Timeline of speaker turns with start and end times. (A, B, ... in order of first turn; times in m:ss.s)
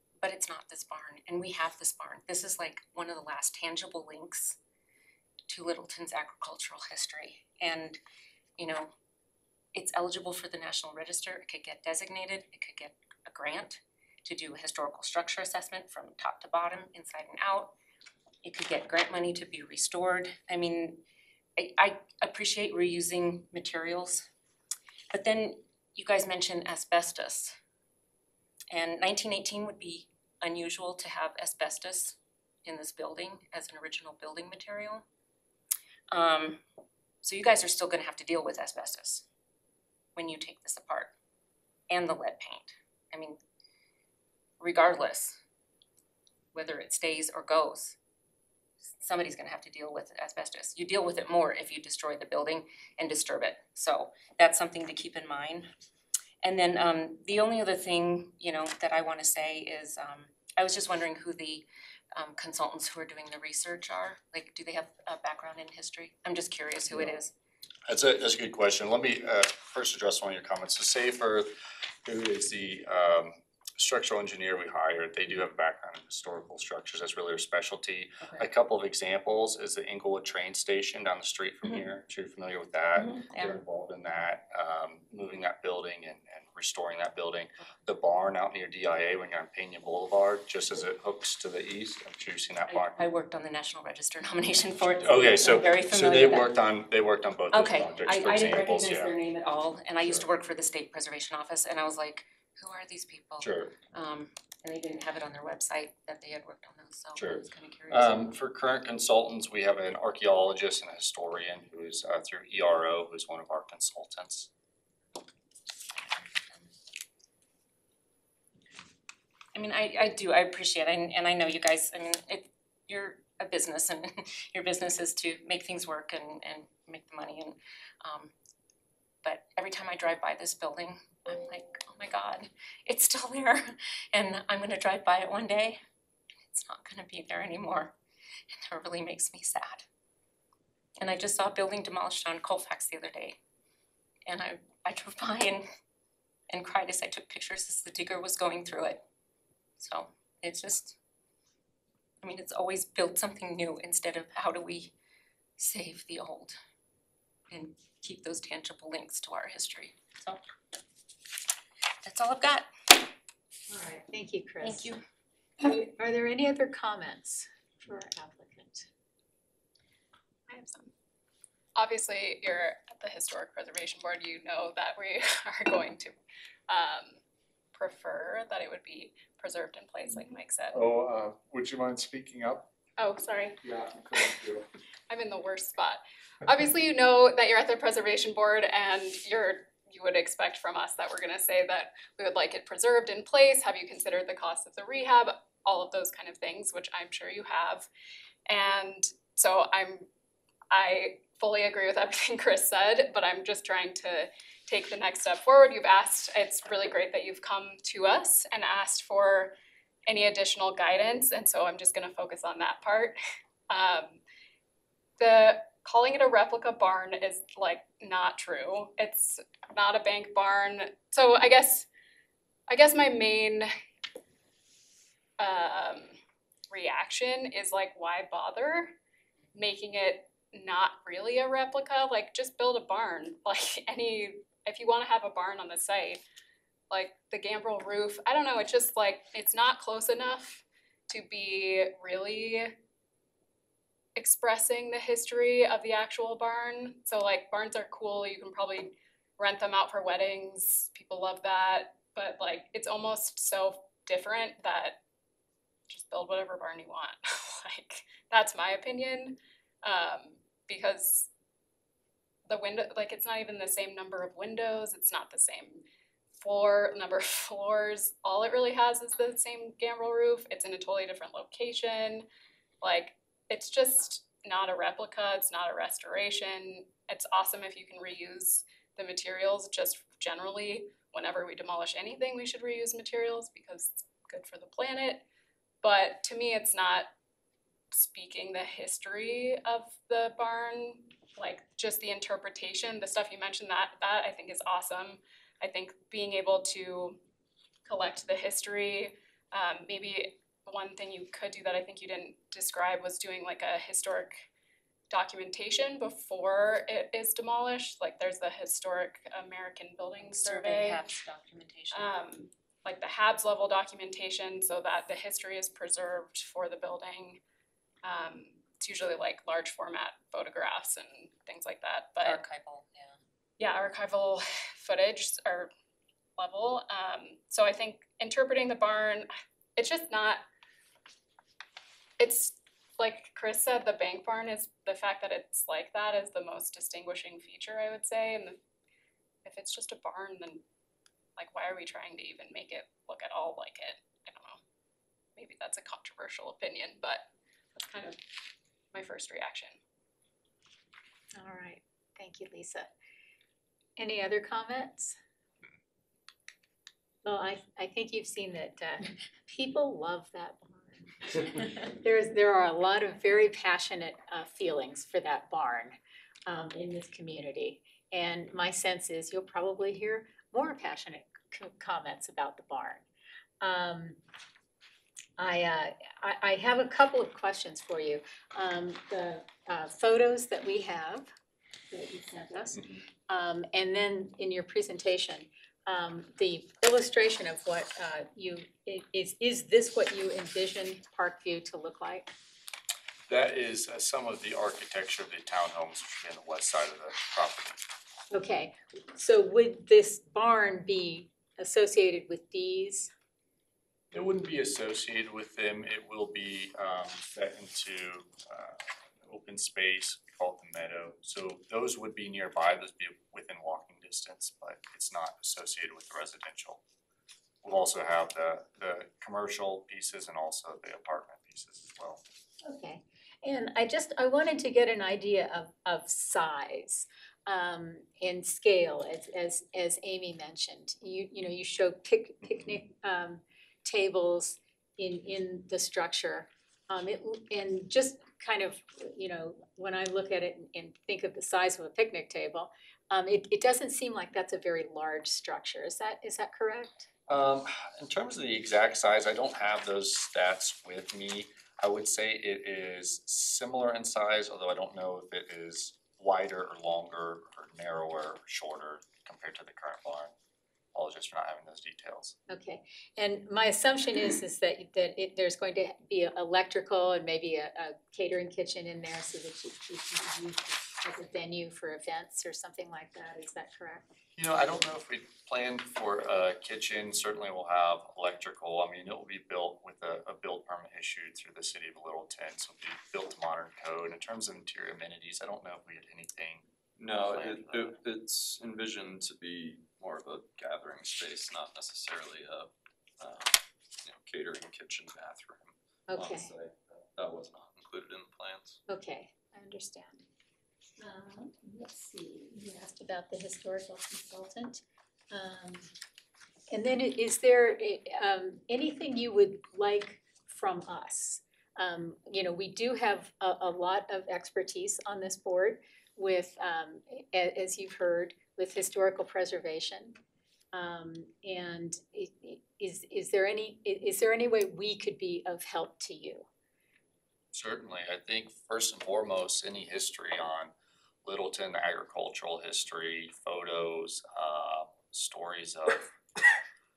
0:00.2-0:04.6 A
0:05.5-0:08.0 A
0:08.6-0:08.9 A
0:09.7-0:17.7 A
0:18.4-0:21.0 A
0:21.6-0:24.3 A
0:25.1-0:27.6 A
0:28.7-0:35.0 A
0:36.1-0:36.6 A
0:37.2-0:39.2 A
0:40.1-0:41.1 A
0:41.9-0:43.4 A
0:44.6-0:45.4 A
0:46.5-0:48.0 A
0:48.9-0:55.7 A
0:56.4-1:07.3 A
1:07.9-1:11.5 B
1:12.0-1:33.0 B
1:18.2-1:18.4 A
1:22.9-1:23.6 A
1:32.7-1:36.6 A
1:35.0-1:39.1 B
1:37.5-1:48.3 A
1:43.4-1:43.7 B
1:47.2-1:54.5 B
1:56.0-1:56.7 A
1:59.5-2:08.3 A
2:09.2-2:15.8 A
2:16.5-2:17.9 A
2:18.5-2:19.8 A
2:21.0-2:23.4 A
2:24.3-2:25.6 A
2:26.5-2:29.0 A
2:29.8-2:31.0 A
2:32.2-2:34.9 A
2:35.6-2:36.6 A
2:37.5-2:40.4 A
2:42.0-2:42.7 A
2:43.7-2:44.9 C
2:44.6-2:45.0 A
2:45.6-2:48.9 C
2:50.5-2:50.9 D
2:51.8-2:56.2 D
2:56.7-2:57.2 D
2:57.7-3:00.8 D
3:00.7-3:02.7 E
3:03.0-3:03.6 D
3:03.6-3:04.6 E
3:05.1-3:17.9 D
3:18.5-3:20.1 D
3:20.7-3:29.5 D
3:30.0-3:33.2 D
3:33.7-3:34.2 D
3:35.2-3:41.9 D
3:42.7-3:43.7 D
3:45.4-3:46.2 D
3:46.7-3:48.9 D
3:49.5-3:56.2 D
3:56.9-4:02.7 D
4:04.2-4:15.0 D
4:15.9-4:21.3 D
4:22.4-4:25.8 D
4:26.4-4:32.2 D
4:32.8-4:45.2 D
4:45.8-4:47.1 D
4:47.9-4:57.2 D
4:57.8-5:04.4 D
5:05.1-5:11.0 D
5:10.2-5:12.1 A
5:11.9-5:17.4 D
5:18.0-5:22.4 D
5:22.2-5:23.2 A
5:23.6-5:25.7 D
5:26.4-5:30.4 D
5:32.2-5:38.6 D
5:39.4-5:40.6 D
5:41.4-5:44.6 D
5:45.4-5:48.2 D
5:48.9-5:49.8 D
5:51.4-5:52.9 C
5:54.0-5:55.2 C
5:57.2-6:13.0 C
6:13.6-6:14.2 C
6:15.4-6:21.3 C
6:21.9-6:32.3 C
6:33.3-6:37.8 B
6:38.3-6:43.1 C
6:44.1-6:56.8 B
6:57.6-7:02.2 B
7:02.6-7:27.1 C
7:27.3-7:40.3 B
7:40.9-7:42.4 B
7:42.5-7:54.0 C
7:54.4-8:08.0 B
8:07.0-8:18.8 F
8:16.1-8:16.5 C
8:18.9-8:20.2 C
8:21.0-8:25.9 C
8:26.7-8:40.2 C
8:40.7-8:46.5 C
8:47.5-8:50.7 B
8:51.2-8:56.1 B